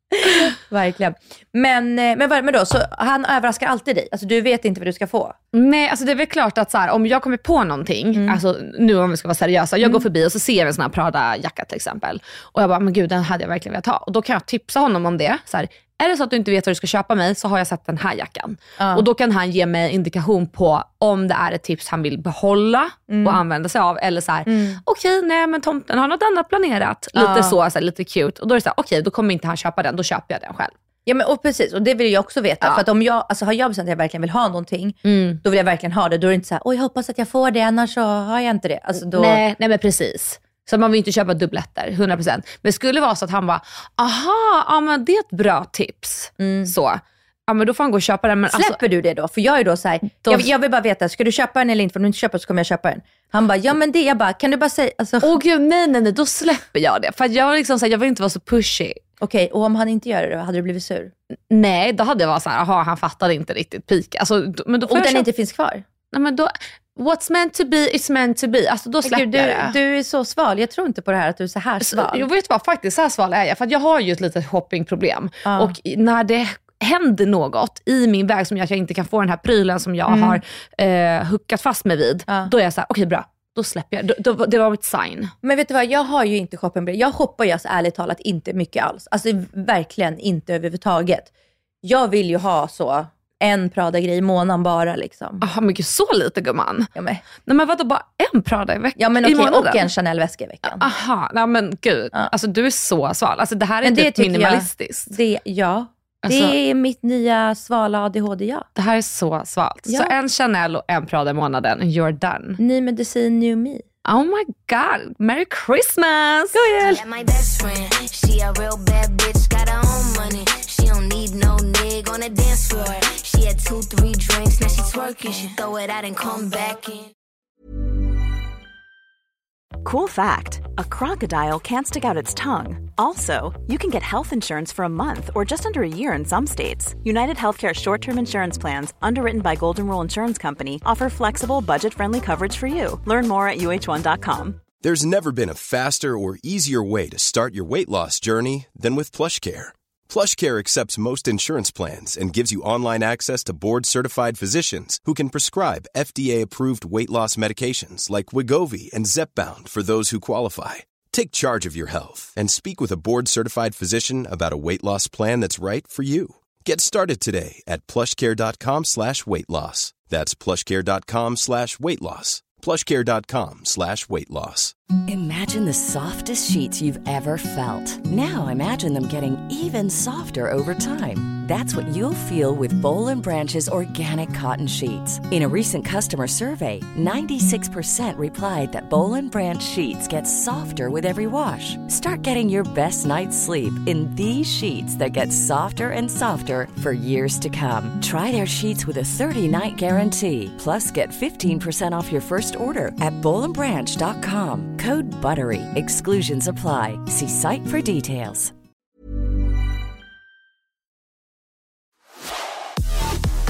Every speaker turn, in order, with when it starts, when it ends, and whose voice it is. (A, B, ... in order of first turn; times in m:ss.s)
0:00.1-0:05.4 A
0:05.5-0:30.7 B
0:08.1-0:08.4 A
0:09.8-0:10.0 A
0:18.8-0:19.0 A
0:23.1-0:23.4 A
0:24.4-0:24.8 A
0:27.1-0:27.6 A
0:31.0-0:39.4 A
0:35.0-0:35.4 B
0:39.0-0:48.8 B
0:46.4-0:46.7 A
0:48.5-0:55.3 A
0:50.2-0:50.5 B
0:55.2-0:59.0 B
0:59.2-1:01.1 A
1:01.5-1:05.3 B
1:04.9-1:05.8 A
1:06.1-1:09.8 B
1:09.0-1:12.2 A
1:11.8-1:25.3 B
1:15.4-1:15.7 A
1:20.1-1:20.4 A
1:25.4-1:31.3 A
1:31.8-1:35.4 A
1:35.4-1:36.9 B
1:36.9-1:37.2 A
1:37.4-1:39.8 B
1:39.0-1:40.8 A
1:40.6-1:45.2 B
1:43.8-1:48.7 A
1:46.2-1:46.5 B
1:48.8-1:52.6 B
1:49.8-1:50.1 A
1:52.6-1:53.8 A
1:54.0-1:57.0 B
1:56.8-2:07.1 C
2:09.8-2:24.7 D
2:24.8-2:54.7 E
2:55.1-3:28.5 F